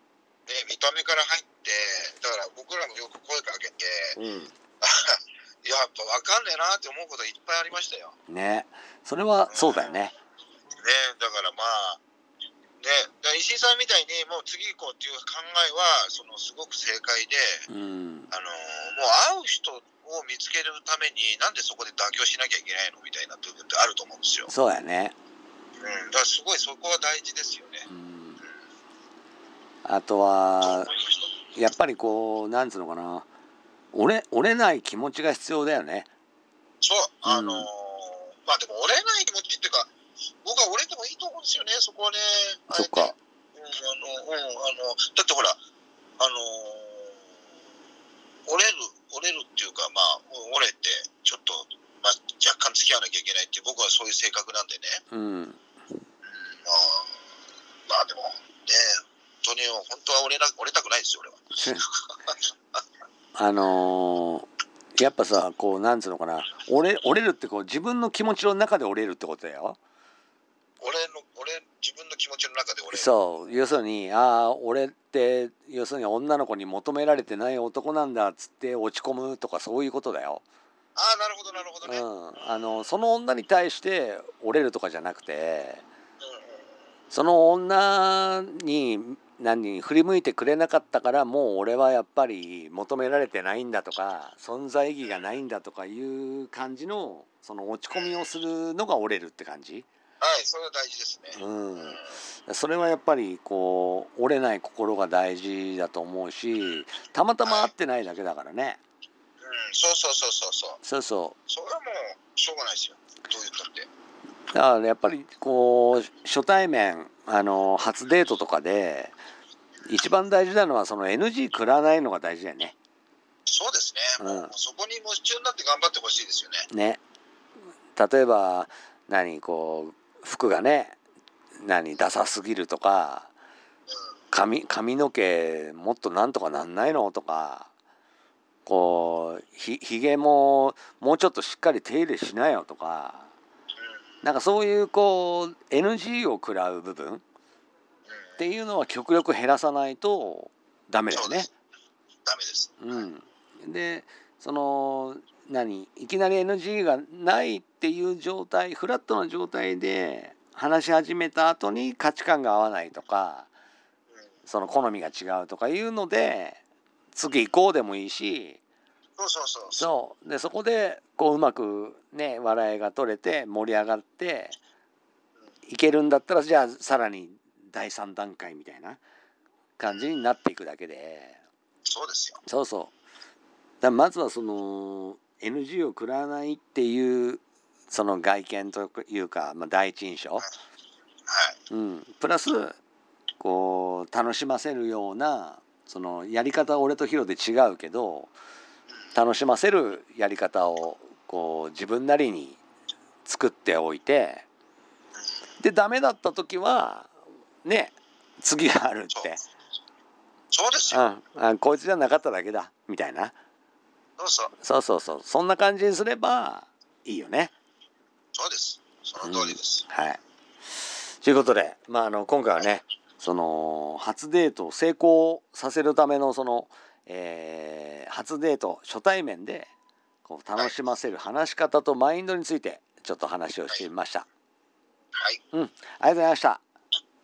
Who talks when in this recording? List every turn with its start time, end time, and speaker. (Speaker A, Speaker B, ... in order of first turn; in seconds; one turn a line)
Speaker A: 0.5-4.2
Speaker B: 4.2-4.5
Speaker A: 4.8-8.2
Speaker B: 8.3-10.2
Speaker A: 9.5-10.0
Speaker A: 10.8-12.0
Speaker A: 12.8-17.7
Speaker B: 17.7-18.3
Speaker A: 18.3-24.5
Speaker B: 24.5-25.1
Speaker A: 25.8-27.9
Speaker B: 27.9-28.4
Speaker B: 29.9-30.9
Speaker A: 30.6-31.4
Speaker B: 31.6-33.3
Speaker B: 33.9-36.1
Speaker A: 36.8-39.9
Speaker B: 37.3-37.7
Speaker A: 40.4-45.6
Speaker B: 42.7-43.1
Speaker A: 46.2-47.2
Speaker A: 48.5-55.0
Speaker B: 55.1-55.6
Speaker A: 56.3-57.2
Speaker A: 57.9-62.8
Speaker B: 61.5-61.9
Speaker B: 63.4-69.8
Speaker A: 70.8-73.8
Speaker B: 72.9-80.4
Speaker A: 81.0-82.9
Speaker B: 81.8-85.8
Speaker A: 86.2-86.7
Speaker B: 87.1-99.9
Speaker A: 97.9-98.3
Speaker A: 100.2-102.2
Speaker B: 101.3-108.8
Speaker A: 107.4-107.7
Speaker A: 109.4-110.8
Speaker B: 110.8-111.4
Speaker A: 111.5-113.9
Speaker B: 114.5-119.2
Speaker B: 119.9-122.8
Speaker A: 123.5-126.7
Speaker B: 124.2-124.5
Speaker B: 126.7-127.0
Speaker B: 128.0-131.0
Speaker B: 131.6-133.3
Speaker B: 134.3-137.7
Speaker B: 138.7-143.3
Speaker A: 143.8-144.1
Speaker B: 144.2-147.2
Speaker A: 148.1-148.5
Speaker B: 148.4-151.5
Speaker A: 151.1-151.5
Speaker A: 152.3-153.1
Speaker B: 152.8-163.5
Speaker B: 164.5-166.6
Speaker B: 167.1-168.6
Speaker A: 169.2-169.9
Speaker B: 169.8-174.6
Speaker B: 175.7-179.0
Speaker B: 179.8-181.4
Speaker A: 181.8-182.4
Speaker B: 182.4-182.9
Speaker B: 183.8-190.5
Speaker A: 191.3-191.6
Speaker B: 191.7-192.8
Speaker B: 193.4-198.3
Speaker B: 199.1-202.6
Speaker B: 203.2-204.5
Speaker B: 205.6-207.1
Speaker B: 207.6-209.4
Speaker A: 210.5-211.0
Speaker B: 210.9-213.3
Speaker A: 214.2-214.5
Speaker B: 214.6-217.5
Speaker A: 218.3-219.8
Speaker B: 219.2-220.2
Speaker B: 220.8-229.7
Speaker B: 230.2-234.3
Speaker A: 235.2-235.4
Speaker B: 235.5-236.6